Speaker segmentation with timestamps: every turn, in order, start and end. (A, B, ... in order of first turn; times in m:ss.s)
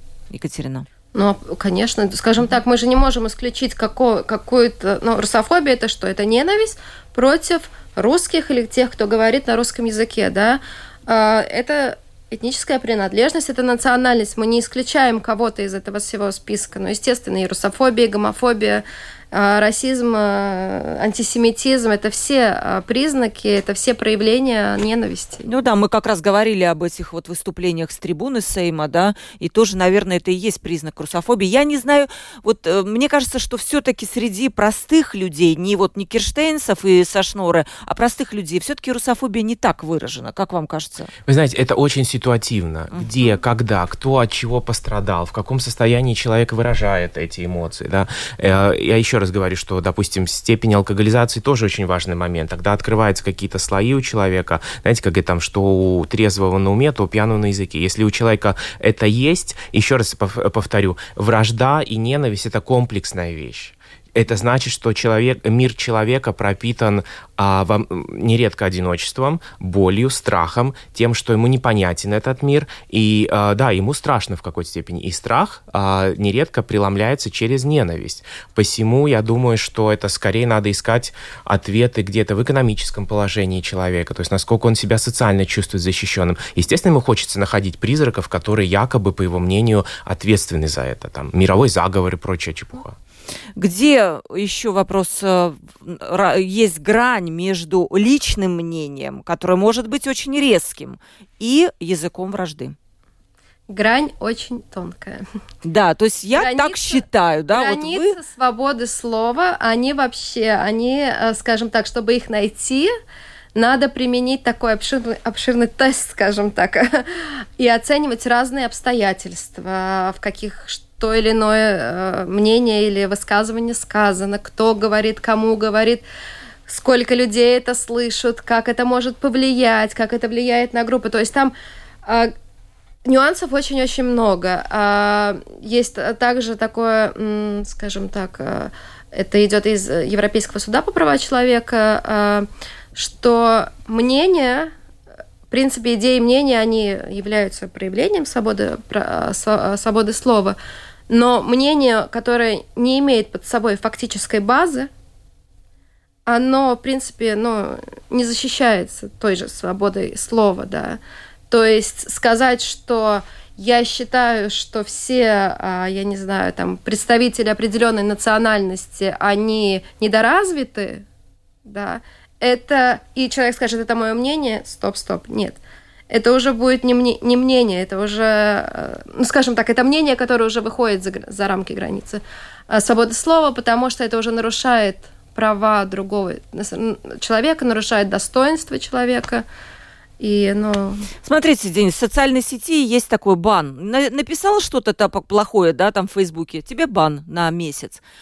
0:00.3-0:00.9 A
0:01.1-0:25.5 B
0:25.4-0:41.1 A
0:41.2-1:33.0 C
0:42.9-0:43.3 A
1:33.6-1:42.7 A
1:43.7-1:45.2 B
1:45.6-1:48.2 A
1:46.3-1:52.9 B
1:53.5-2:06.0 B
2:06.7-2:11.5 B
2:12.0-2:12.3 B
2:13.0-2:24.7 B
2:25.5-2:30.6 B
2:31.1-2:34.9 B
2:36.3-2:51.0 B
2:51.6-3:09.4 B
3:10.2-3:11.1 B
3:11.2-3:18.0 A